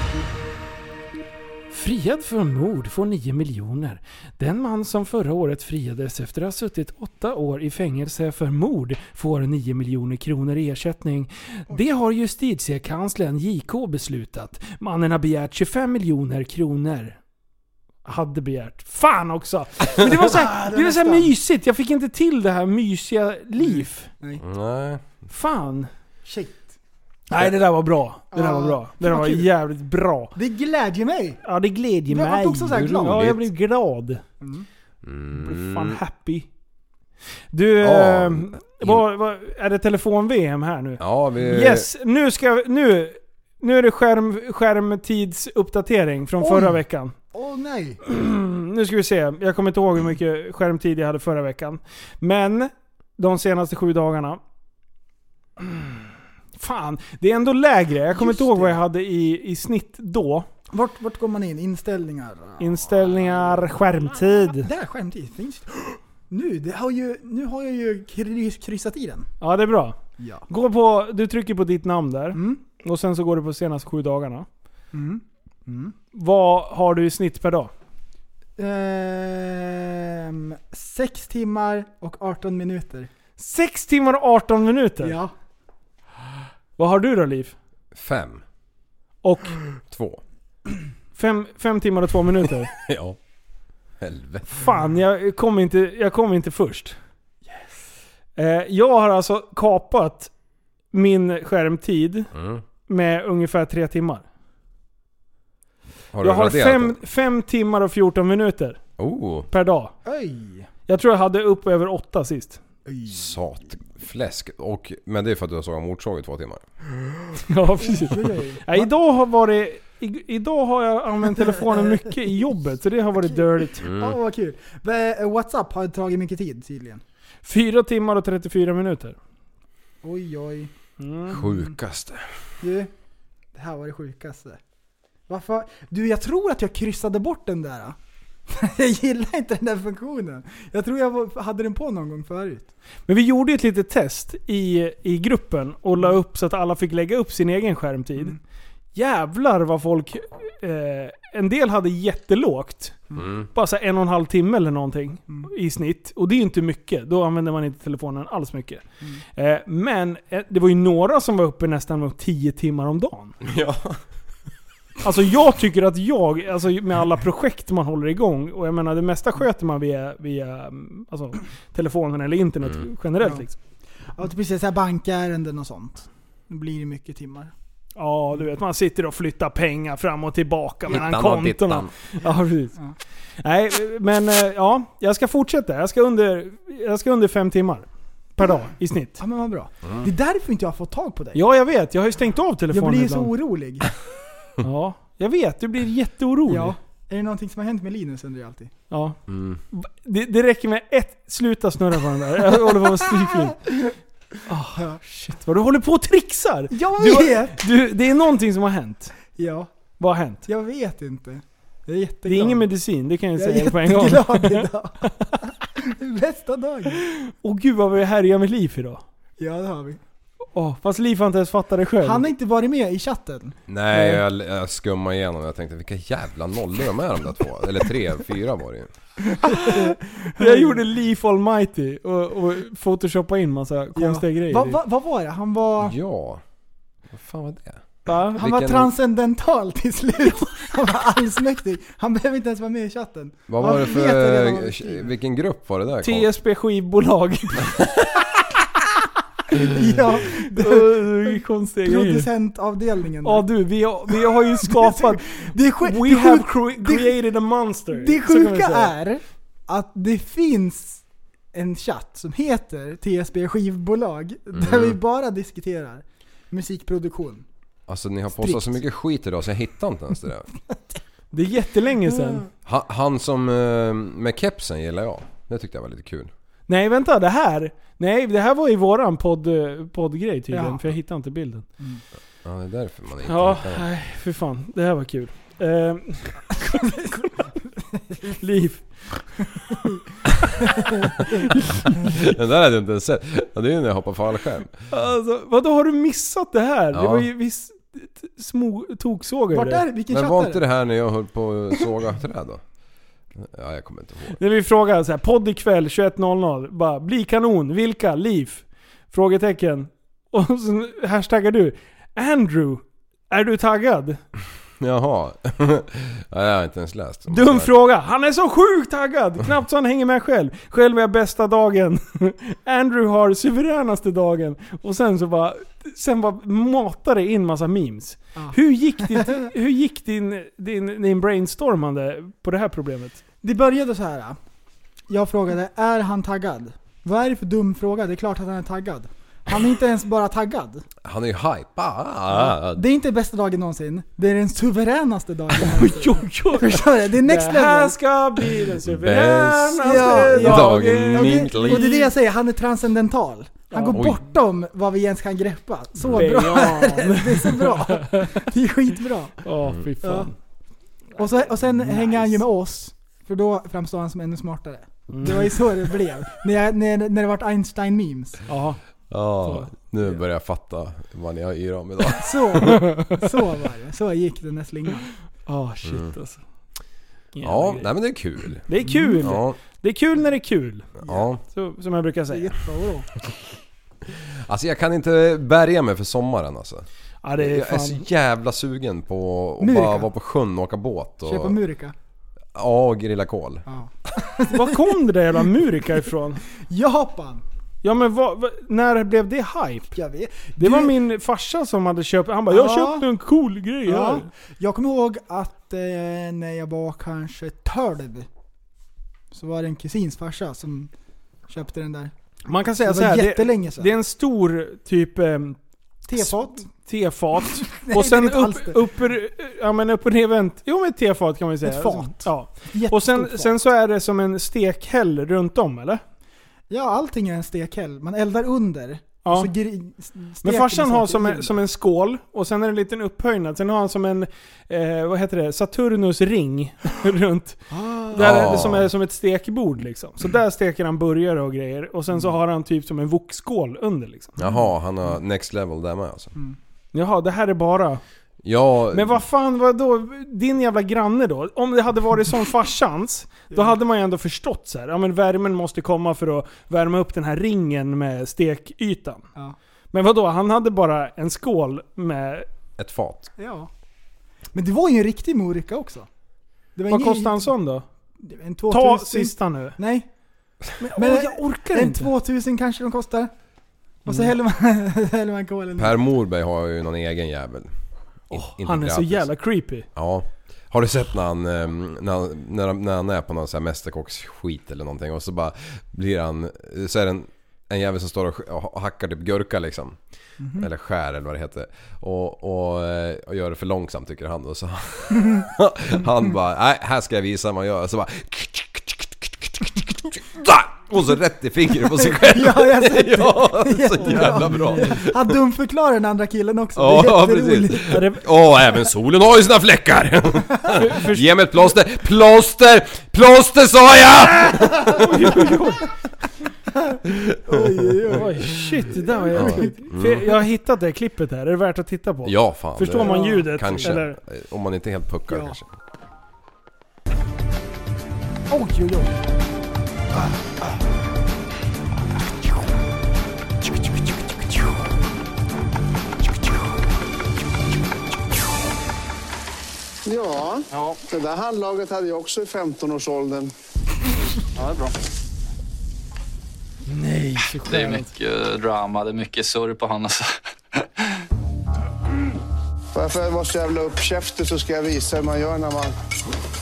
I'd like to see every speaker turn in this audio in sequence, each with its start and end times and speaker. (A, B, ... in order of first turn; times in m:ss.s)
0:01.7-0:17.2 A
0:18.0-0:24.1 A
0:20.2-0:21.3 B
0:23.6-0:24.4 B
0:24.4-0:25.0 C
0:25.3-0:25.9 A
0:26.2-0:26.8 B
0:27.3-0:30.3 A
0:28.3-0:29.5 B
0:30.3-0:31.4 B
0:31.4-0:34.2 A
0:32.1-0:33.3 B
0:32.7-0:33.4 C
0:34.4-0:34.7 B
0:35.0-0:36.0 C
0:35.3-0:36.5 A
0:37.5-0:47.1 A
0:37.8-0:39.0 C
0:41.0-0:41.9 C
0:46.4-0:46.8 B
0:47.3-0:48.0 B
0:48.0-0:54.4 A
0:55.6-0:56.0 A
0:56.6-1:00.5 A
0:58.1-0:58.8 B
1:00.7-1:03.6 B
1:02.6-1:04.7 A
1:04.5-1:09.3 B
1:09.4-1:14.5 A
1:10.2-1:10.4 B
1:12.3-1:12.6 B
1:14.9-1:15.9 B
1:16.1-1:17.7 A
1:18.6-1:23.1 B
1:23.4-1:25.2 A
1:25.0-1:25.3 B
1:26.8-1:27.5 A
1:27.9-1:28.4 C
1:29.2-1:29.6 A
1:29.9-1:30.2 C
1:31.1-1:32.7 A
1:32.8-1:33.2 C
1:34.0-1:34.7 C
1:34.5-1:37.0 A
1:38.4-1:40.3 A
1:40.9-1:42.3 A
1:42.3-1:42.6 C
1:42.9-1:44.2 A
1:46.1-1:47.0 C
1:46.2-1:48.8 A
1:49.0-1:49.5 C
1:49.5-1:49.9 A
1:50.0-1:50.7 B
1:50.9-1:52.6 A
1:52.8-1:53.2 B
1:53.1-1:56.6 C
1:57.5-2:03.9 A
1:57.8-1:58.9 B
2:01.7-2:02.0 B
2:03.2-2:07.0 B
2:03.8-2:04.2 C
2:07.4-2:09.2 A
2:10.0-2:10.7 B
2:11.0-2:11.4 A
2:11.3-2:12.2 C
2:12.6-2:12.9 B
2:13.5-2:14.6 B
2:15.3-2:18.0 B
2:18.5-2:22.7 B
2:23.1-2:28.4 A
2:28.9-2:33.0 A
2:33.2-2:33.5 C
2:33.5-2:38.8 A
2:39.4-2:43.3 A
2:43.4-2:44.0 C
2:45.0-2:53.5 A
2:54.1-2:57.5 B
2:58.0-3:02.7 A
3:00.9-3:01.9 C
3:03.4-3:09.2 A
3:09.2-3:11.4 B
3:09.8-3:10.1 C
3:11.3-3:13.3 A
3:12.7-3:13.9 B
3:14.6-3:16.7 A
3:16.5-3:18.7 B
3:18.9-3:19.2 A
3:19.3-3:19.6 C
3:19.7-3:23.6 A
3:24.5-3:29.1 A
3:26.7-3:27.6 B
3:29.3-3:29.7 B
3:30.0-3:30.4 A
3:30.4-3:32.7 B
3:32.3-3:34.7 A
3:33.4-3:35.1 B
3:35.8-3:37.0 B
3:37.1-3:39.0 A
3:39.4-3:40.0 B
3:40.5-3:42.2 A
3:42.0-3:43.6 B
3:43.7-3:48.9 C
3:49.3-3:50.8 B
3:49.5-3:54.8 A
3:53.9-3:56.0 B
3:55.8-3:56.4 C
3:57.1-3:58.9 C
3:58.0-3:58.4 A
3:58.4-4:05.1 B
4:03.5-4:06.3 C
4:06.0-4:07.9 A
4:09.6-4:13.5 B
4:10.4-4:12.3 A
4:13.2-4:15.2 A
4:14.3-4:17.1 B
4:15.8-4:18.9 A
4:17.9-4:21.0 B
4:21.5-4:27.4 B
4:24.5-4:25.0 C
4:27.9-4:30.5 C
4:28.4-4:28.8 B
4:31.3-4:32.4 A
4:32.6-4:36.3 C
4:36.7-4:41.6 A
4:40.5-4:40.8 B
4:42.4-4:43.8 C
4:43.2-4:47.3 A
4:48.4-4:49.4 A
4:50.7-4:51.2 B
4:52.0-4:54.8 C
4:54.9-4:59.8 A
4:56.9-4:57.3 C
4:59.5-5:00.6 B
5:00.1-5:02.6 C
5:03.4-5:04.4 C
5:04.4-5:14.2 A
5:14.8-5:17.7 C
5:17.3-5:33.2 A
5:28.3-5:29.4 B
5:33.4-5:34.4 B
5:35.1-5:40.8 B
5:41.0-5:42.8 C
5:42.3-5:47.9 B
5:45.6-5:52.1 A
5:48.8-5:51.9 C
5:49.8-5:59.4 B
5:53.7-5:54.0 A
5:53.9-5:54.2 C
5:56.1-5:58.2 A
5:59.4-6:00.3 A
6:00.0-6:00.3 B
6:01.2-6:08.4 B
6:01.2-6:02.4 A
6:05.1-6:05.7 A
6:08.5-6:08.8 A
6:09.1-6:12.8 C
6:09.4-6:09.7 A
6:12.1-6:15.1 B
6:12.9-6:13.1 A
6:15.5-6:16.4 A
6:15.8-6:16.1 C
6:17.3-6:17.9 A
6:17.4-6:19.6 C
6:18.7-6:20.9 A
6:21.0-6:21.4 C
6:21.0-6:21.3 B
6:21.5-6:22.5 A
6:22.3-6:23.1 B
6:24.4-6:26.8 C
6:27.2-6:28.0 A
6:27.4-6:31.6 C
6:29.6-6:30.1 B
6:31.2-6:31.9 B
6:32.5-6:33.6 C
6:33.7-6:34.9 B
6:34.5-6:36.4 A
6:36.7-6:37.4 B
6:37.8-6:39.9 A
6:39.9-6:40.9 B
6:40.6-6:44.2 A
6:42.5-6:43.0 B
6:43.8-6:48.3 B
6:49.3-6:50.9 B
6:51.5-6:52.1 B
6:52.5-6:55.6 A
6:52.8-6:53.9 B
6:56.1-6:56.7 B
6:56.1-7:06.0 A
6:57.7-6:58.8 B
7:01.6-7:03.5 B
7:06.7-7:11.6 B
7:09.2-7:09.5 A
7:10.4-7:24.4 A
7:17.7-7:18.6 B
7:18.1-7:18.9 C
7:24.4-7:26.3 C
7:26.9-7:28.0 A
7:28.4-7:29.2 C
7:28.9-7:39.2 A
7:39.9-7:42.5 A
7:42.8-7:43.3 C
7:43.4-7:43.7 B
7:44.5-7:46.1 B
7:46.8-7:47.5 B
7:46.9-7:47.8 A
7:48.2-7:50.1 B
7:48.7-7:49.8 A
7:50.8-7:52.1 A
7:51.0-7:53.3 B
7:54.0-7:56.0 B
7:55.8-7:57.7 C
7:58.3-7:59.3 C
7:58.3-7:59.9 A
7:59.9-8:10.0 C
8:10.4-8:10.7 B
8:10.5-8:25.3 C
8:22.1-8:28.0 B
8:24.0-8:25.0 A
8:26.7-8:35.4 C
8:27.9-8:28.2 A
8:30.8-8:31.3 A
8:34.3-8:35.8 A
8:36.9-8:39.8 B
8:37.1-8:37.9 C
8:38.1-8:44.2 A
8:39.3-8:40.3 C
8:42.2-8:45.7 C
8:43.0-8:44.0 B
8:45.3-8:45.6 B
8:48.5-8:49.2 B
9:00.0-9:03.5 D
9:00.7-9:01.0 E
9:04.6-9:04.9 E
9:06.9-9:08.1 A
9:07.6-9:10.3 E
9:12.9-9:15.9 D